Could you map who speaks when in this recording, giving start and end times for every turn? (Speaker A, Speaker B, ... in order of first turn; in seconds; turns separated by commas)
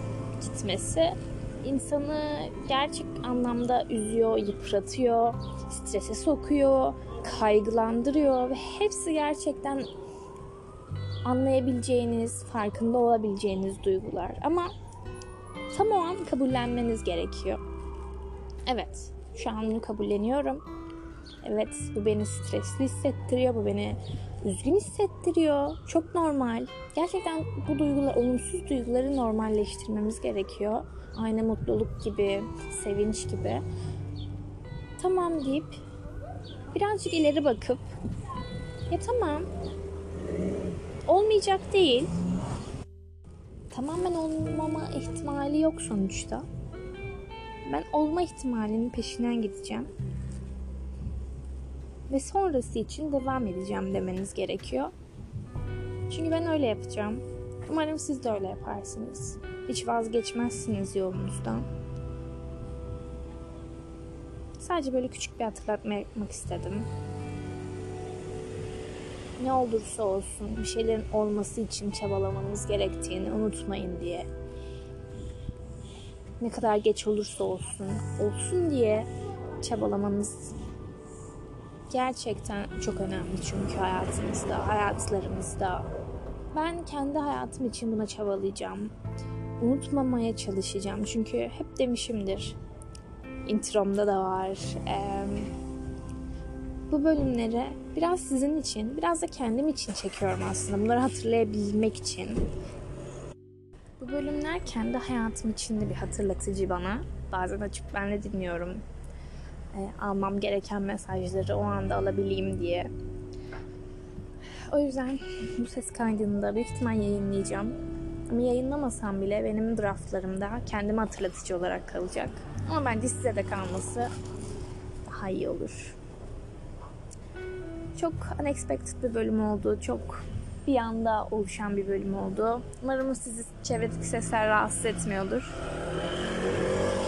Speaker A: 0.4-9.9, Speaker A: 11.2-14.7, Speaker A: 15.7-17.6, Speaker A: 18.7-20.6, Speaker A: 21.4-33.6, Speaker A: 35.0-35.8, Speaker A: 36.7-37.9, Speaker A: 38.9-39.5, Speaker A: 41.1-42.1, Speaker A: 43.7-46.5, Speaker A: 47.6-49.9, Speaker A: 52.1-54.9, Speaker A: 56.1-61.7, Speaker A: 64.6-66.9, Speaker A: 69.4-74.3, Speaker A: 76.4-79.1, Speaker A: 79.6-80.6, Speaker A: 81.9-85.9, Speaker A: 86.5-88.9, Speaker A: 89.6-92.6, Speaker A: 93.5-95.5, Speaker A: 96.9-102.5, Speaker A: 104.0-108.8, Speaker A: 109.7-112.9, Speaker A: 114.7-117.8, Speaker A: 118.3-124.1, Speaker A: 125.0-126.0, Speaker A: 128.0-135.5